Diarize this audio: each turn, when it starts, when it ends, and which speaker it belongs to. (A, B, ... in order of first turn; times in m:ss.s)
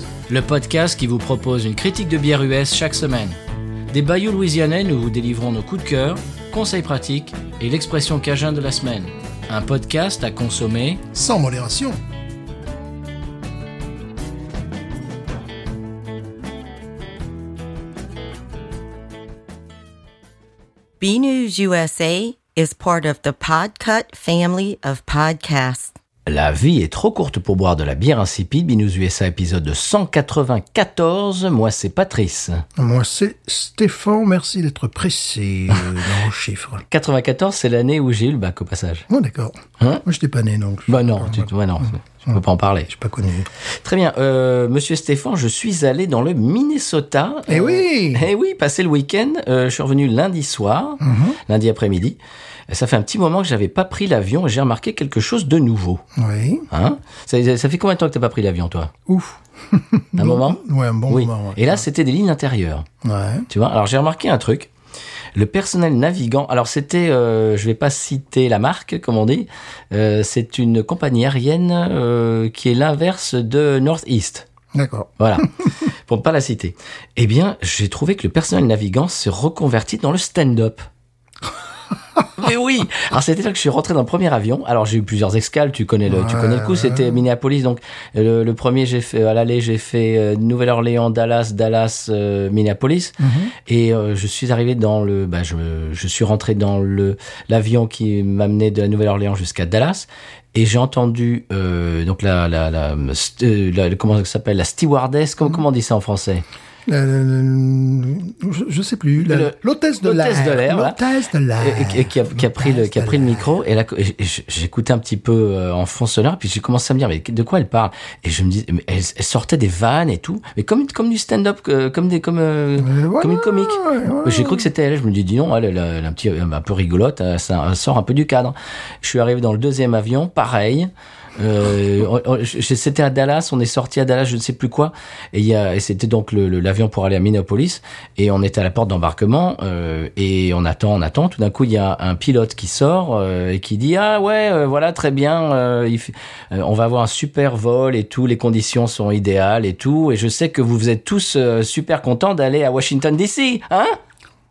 0:00.3-0:03.4 A
0:03.9-0:11.0 A
0:11.1-0:12.0 B
0:21.0-0:25.9 C
0:26.2-0:32.6 A
0:32.8-0:36.8 B
0:36.9-0:39.1 A
0:39.1-0:41.5 B
0:40.9-0:42.9 A
0:42.2-0:43.5 B
0:43.7-0:56.0 A
0:47.5-0:48.3 B
0:51.0-0:51.4 B
0:56.1-0:56.7 B
0:56.7-0:58.9 A
0:59.1-1:01.8 B
1:00.1-1:02.8 A
1:03.0-1:03.5 B
1:03.5-1:04.7 A
1:05.3-1:14.5 A
1:14.7-1:15.7 B
1:15.2-1:20.9 A
1:22.4-1:46.4 A
1:26.1-1:27.2 B
1:33.2-1:33.5 B
1:46.9-1:53.4 B
1:49.2-1:51.0 A
1:51.6-2:34.0 A
2:02.8-2:04.7 B